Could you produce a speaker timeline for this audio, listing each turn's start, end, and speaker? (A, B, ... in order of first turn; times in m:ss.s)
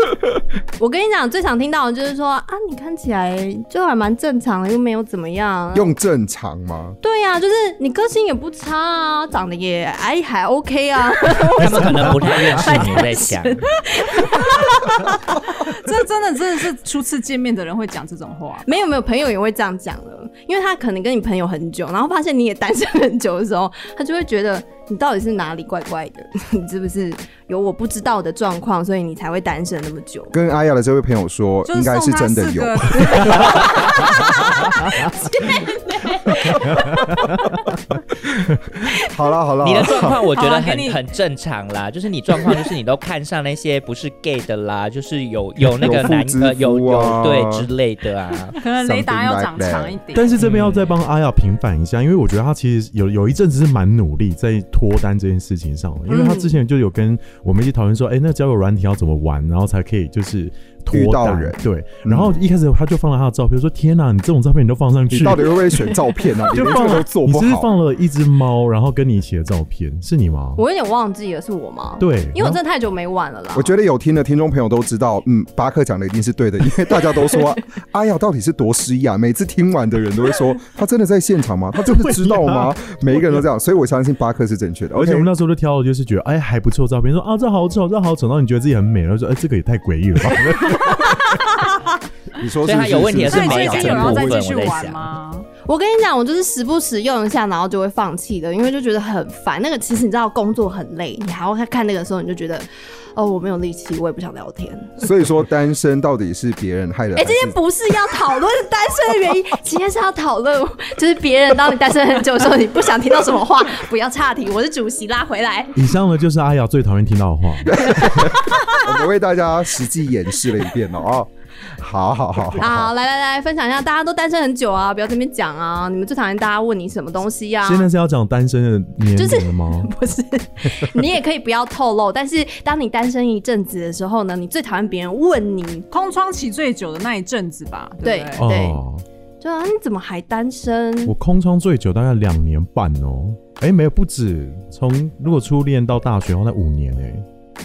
0:00.8-0:05.9 A
0:05.7-0:07.0 B
0:07.0-0:15.4 A
0:11.6-0:13.6 C
0:15.6-0:18.7 D
0:18.6-0:30.3 A
0:30.3-0:33.9 B
0:31.6-0:34.1 D
0:33.5-0:37.4 A
0:38.9-0:40.2 B
0:39.6-0:48.6 C
0:40.3-0:41.0 D
0:45.8-0:47.7 B
0:48.6-0:50.8 D
0:48.8-0:50.0 B
0:50.1-1:05.7 E
0:56.1-0:56.6 A
1:00.9-1:02.3 B
1:05.1-1:07.7 B
1:06.5-1:10.6 E
1:10.6-1:13.7 A
1:12.0-1:12.6 E
1:13.5-1:25.3 B
1:21.8-1:23.4 E
1:24.9-1:31.4 E
1:32.3-1:34.4 B
1:32.6-1:35.0 C
1:33.2-1:35.5 D
1:35.6-1:45.0 A
1:45.0-1:47.6 B
1:47.2-1:55.8 A
1:55.8-1:58.1 E
1:57.6-2:02.9 B
1:58.2-1:58.9 A
2:02.6-2:07.9 A
2:07.6-2:09.9 E
2:09.1-2:15.8 A
2:15.9-2:18.4 D
2:18.0-2:18.8 A
2:18.4-2:19.0 E
2:19.4-2:21.1 A
2:21.0-2:27.2 E